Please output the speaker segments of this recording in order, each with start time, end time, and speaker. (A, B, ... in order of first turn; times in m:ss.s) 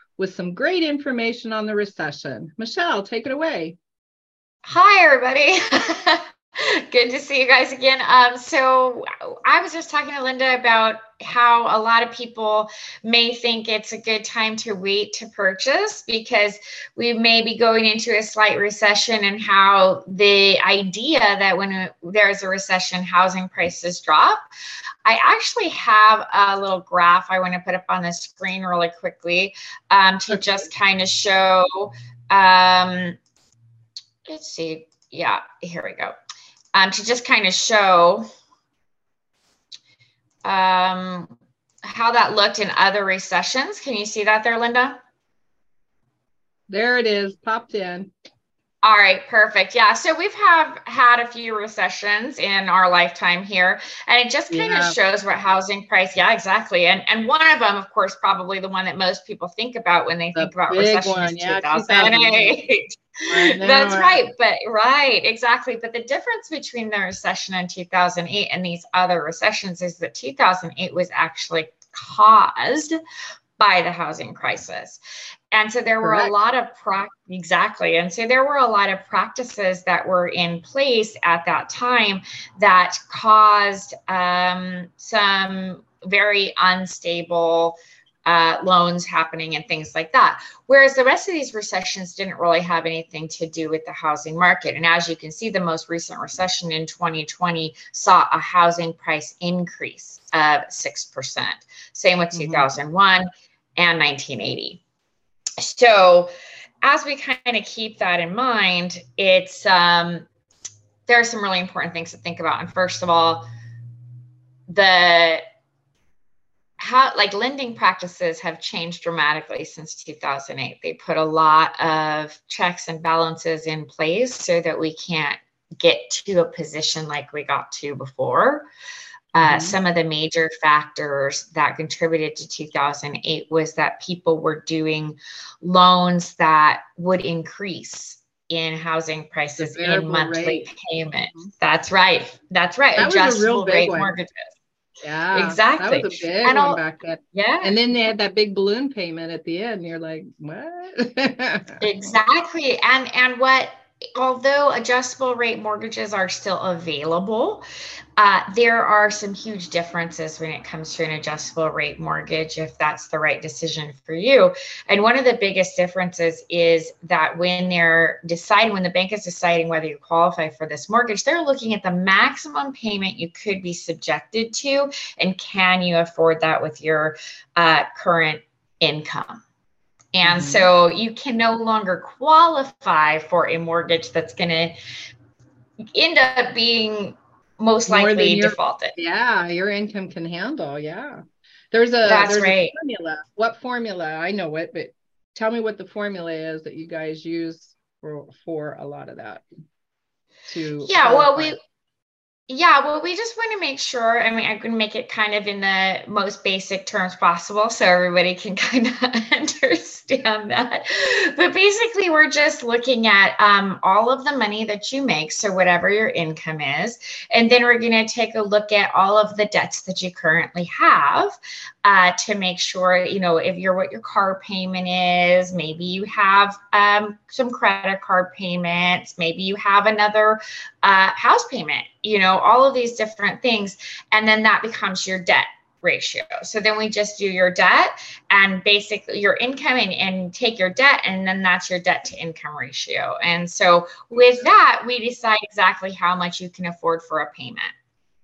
0:00.2-0:03.8 A
0:04.7-0:24.4 B
0:25.0-0:33.2 B
0:30.3-0:30.6 A
0:34.3-0:36.2 B
0:36.7-0:38.2 B
0:40.4-0:41.3 B
0:41.9-0:45.0 B
0:46.7-0:48.1 A
0:48.8-1:13.0 B
0:54.5-0:55.0 A
1:00.4-1:02.6 A
1:03.3-1:04.2 A
1:13.6-1:15.0 B
1:15.5-1:43.2 B
1:16.0-1:16.3 A
1:42.3-1:42.7 A
1:43.8-1:44.8 B
1:45.6-1:46.3 B
1:46.8-1:50.3 B
1:51.1-1:53.5 B
1:54.7-1:55.4 B
1:56.8-2:08.7 B
2:09.4-2:24.6 B
2:09.4-2:09.8 A
2:19.6-2:20.7 A
2:23.0-2:24.1 A
2:25.0-2:31.8 A
2:25.3-2:26.8 B
2:27.4-2:27.7 B
2:31.8-2:37.6 B
2:38.2-2:59.4 B
3:00.1-3:04.8 B
3:00.2-3:00.7 A
3:06.0-3:09.0 B
3:07.9-3:11.2 A
3:11.7-3:19.4 A
3:12.0-3:12.8 B
3:20.5-3:21.6 A
3:20.8-3:21.6 B
3:22.5-4:07.7 B
4:04.3-4:04.6 A